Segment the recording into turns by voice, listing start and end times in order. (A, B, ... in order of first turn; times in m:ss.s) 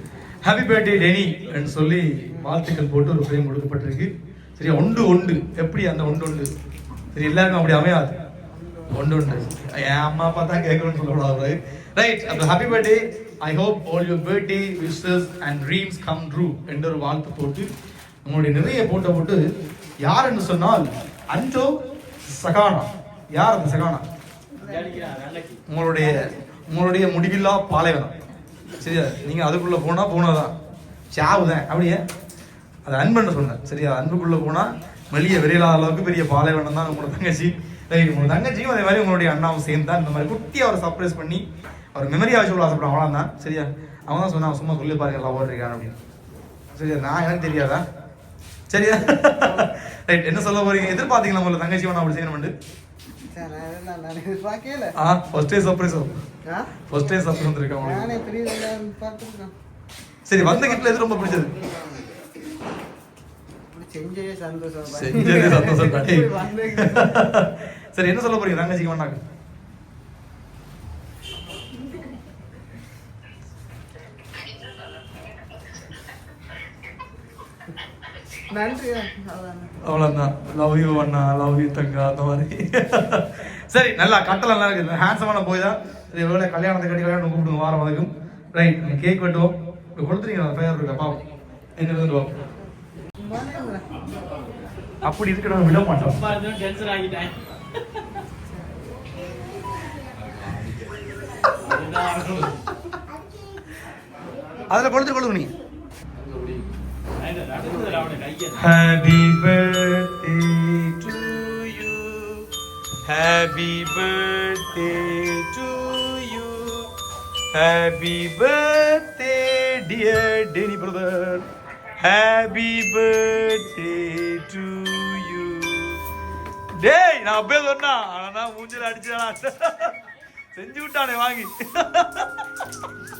0:00.4-0:06.5 A
0:07.1-0:08.1 A
0:08.5-0:09.1 B
0:08.9-0:17.7 A
0:18.2-0:19.4 A
0:20.0-0:21.8 A
0:22.3-0:24.0 A
0:24.6-0:25.2 B
0:24.6-0:25.6 C
0:25.7-0:28.1 A
0:28.8-0:30.5 A
0:31.1-0:32.0 A
0:32.8-0:45.9 A
0:46.7-0:47.8 A
0:48.7-0:52.5 A
0:53.3-0:54.9 B
0:55.0-0:56.2 A
0:56.5-0:56.8 B
0:56.9-0:58.1 A
0:57.8-0:59.5 B
1:00.2-1:01.5 A
1:00.4-1:02.3 B
1:03.7-1:07.2 B
1:04.9-1:09.2 A
1:18.5-1:19.8 B
1:19.8-1:31.2 A
1:31.8-1:32.3 A
1:33.2-1:33.9 B
1:35.0-1:36.4 A
1:36.4-1:37.3 C
1:38.5-1:38.8 B
1:41.7-1:42.5 C
1:44.7-1:45.5 A
1:47.2-1:48.6 C
1:48.5-1:52.5 A
1:53.0-1:56.9 A
1:57.5-2:01.5 A
2:02.0-2:06.0 A
2:06.8-2:09.9 A
2:10.5-2:12.4 A